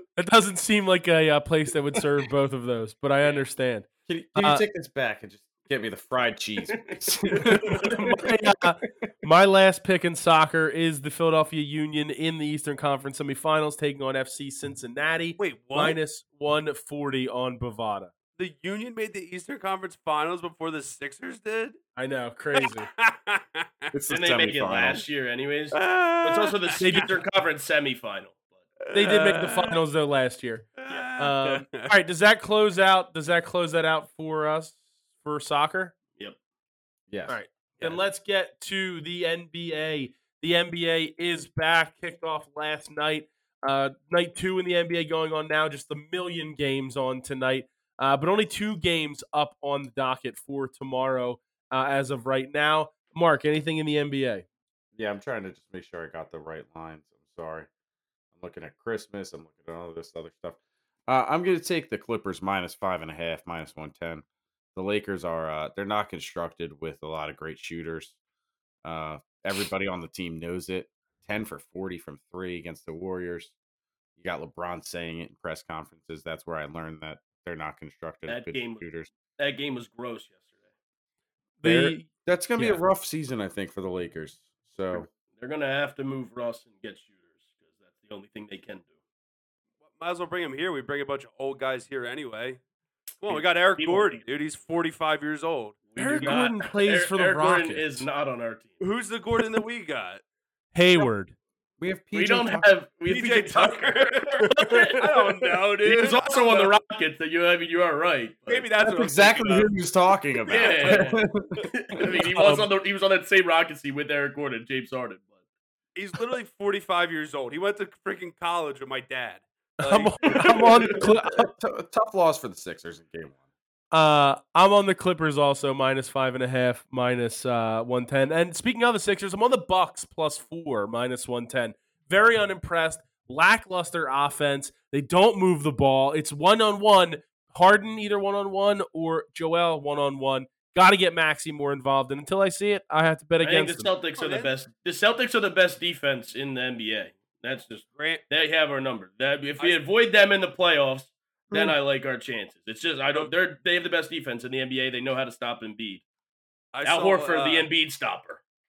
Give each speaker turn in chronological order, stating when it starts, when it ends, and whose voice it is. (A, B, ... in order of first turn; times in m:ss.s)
0:00.2-0:04.6 A
0:04.1-0:08.6 B
0:06.7-0:07.0 C
0:07.7-0:18.1 A
0:15.4-0:16.0 D
0:18.4-0:21.8 D
0:22.0-0:22.9 A
0:22.5-0:23.9 D
0:23.9-0:25.0 B
0:24.1-0:28.4 C
0:25.7-0:27.0 D
0:26.8-0:27.2 A
0:28.8-0:29.8 D
0:28.9-0:35.9 A
0:30.8-0:31.9 D
0:37.1-0:37.4 B
0:37.3-0:54.4 A
0:54.9-0:57.7 B
0:58.3-1:04.2 B
1:04.7-1:08.2 B
1:08.8-1:13.5 B
1:14.2-1:19.1 B
1:18.3-1:18.8 C
1:19.4-1:20.4 C
1:21.6-1:22.8 A
1:21.6-1:25.1 B
1:25.2-1:27.1 C
1:27.9-1:28.9 C
1:29.9-1:32.6 D
1:33.2-1:36.5 D
1:33.3-1:34.2 C
1:35.9-1:38.8 C
1:36.0-1:38.1 A
1:38.8-1:40.2 D
1:40.7-1:41.4 A
1:41.8-1:42.7 B
1:42.1-1:45.0 C
1:43.1-1:46.7 D
1:45.8-1:48.7 C
1:48.5-1:49.7 D
1:48.8-1:52.2 B
1:50.4-1:55.3 C
1:50.5-1:51.1 D
1:52.3-1:52.7 A
1:56.0-2:00.8 D
1:59.8-2:01.5 A
2:00.3-2:00.8 C
2:00.9-2:03.4 B
2:03.9-2:23.9 A
2:23.4-2:36.0 C
2:24.1-2:24.5 D
2:28.0-2:28.2 D
2:36.7-2:37.7 D
2:36.8-2:38.4 C